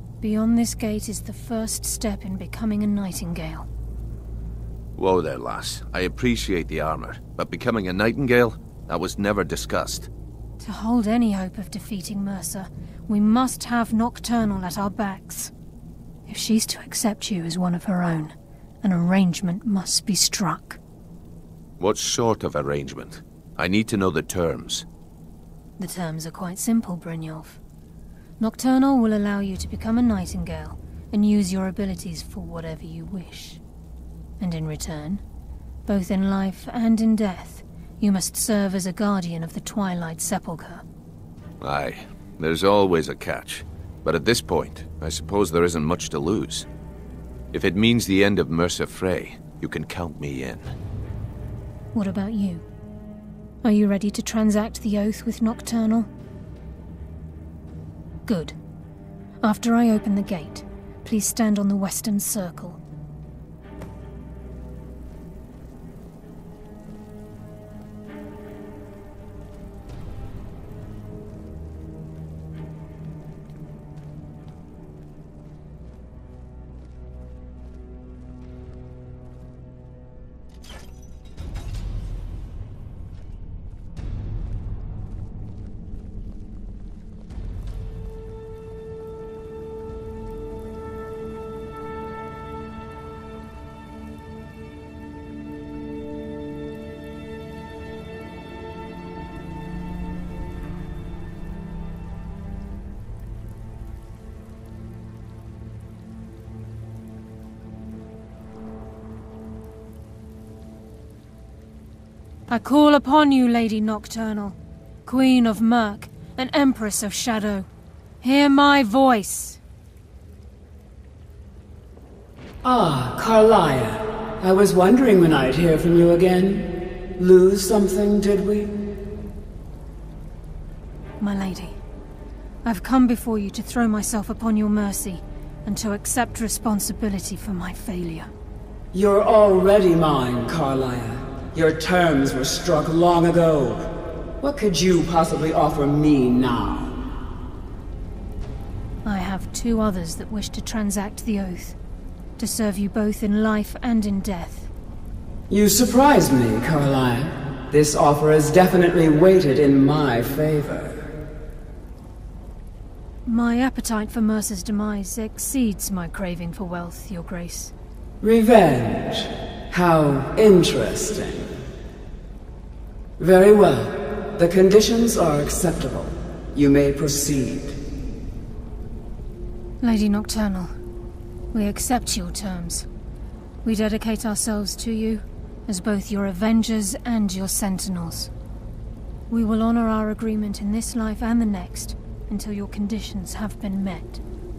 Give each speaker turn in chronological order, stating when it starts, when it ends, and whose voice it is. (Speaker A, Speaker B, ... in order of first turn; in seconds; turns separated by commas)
Speaker A: 0.2-3.7, Speaker B: 5.0-10.1, Speaker A: 10.6-15.5, Speaker A: 16.3-20.8, Speaker B: 21.8-24.9, Speaker A: 25.8-27.6, Speaker A: 28.4-33.6, Speaker A: 34.4-35.2, Speaker A: 35.9-40.8, Speaker B: 41.6-46.7, Speaker B: 47.5-50.8, Speaker A: 51.9-52.7, Speaker A: 53.6-56.1, Speaker A: 58.3-58.6, Speaker A: 59.4-62.8, Speaker A: 112.5-117.7, Speaker A: 118.2-119.6, Speaker C: 122.6-128.8, Speaker A: 131.2-131.8, Speaker A: 132.6-138.3, Speaker C: 138.9-147.0, Speaker A: 149.0-151.8, Speaker A: 152.4-154.7, Speaker C: 155.5-161.1, Speaker A: 163.2-167.7, Speaker C: 168.2-171.6, Speaker C: 173.2-177.8, Speaker A: 179.8-180.7, Speaker A: 181.5-182.9, Speaker A: 183.6-188.3, Speaker A: 189.3-194.2